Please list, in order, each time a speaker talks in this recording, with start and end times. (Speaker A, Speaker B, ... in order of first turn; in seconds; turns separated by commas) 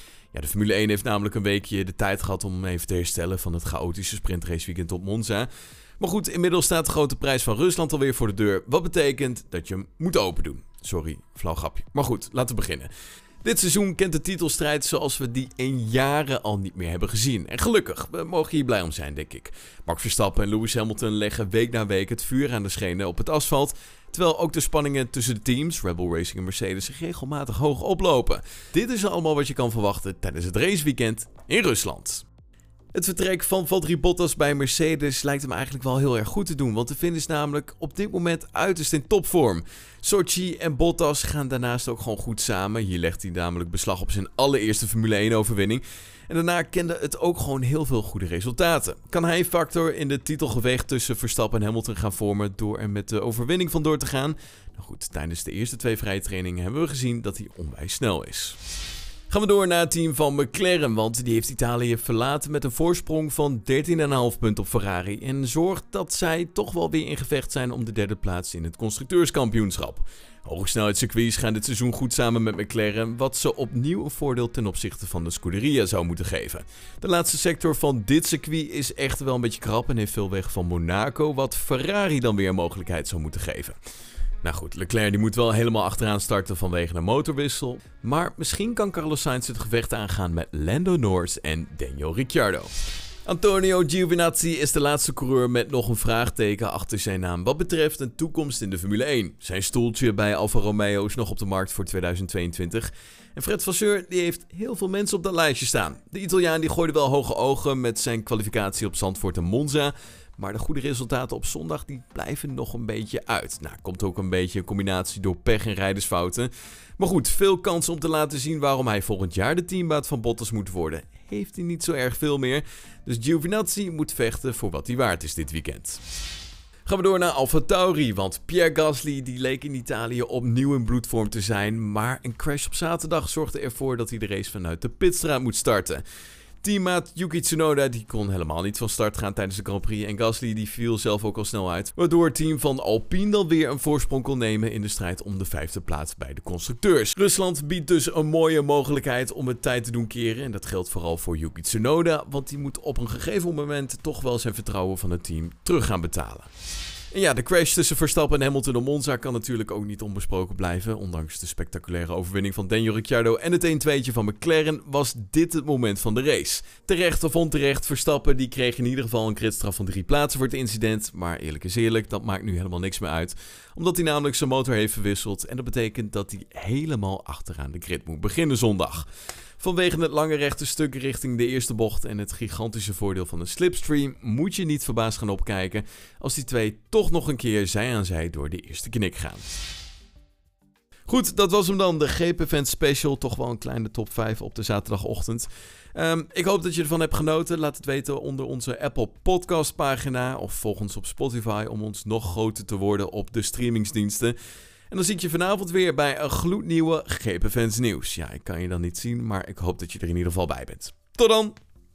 Speaker A: 0.3-12.9, Speaker A: 13.4-32.2, Speaker A: 32.9-58.6, Speaker A: 59.3-83.8, Speaker A: 84.4-92.7, Speaker A: 93.2-126.0, Speaker A: 126.9-136.0, Speaker A: 136.6-156.5, Speaker A: 157.1-179.1, Speaker A: 179.6-189.6, Speaker A: 191.1-204.4, Speaker A: 204.9-211.6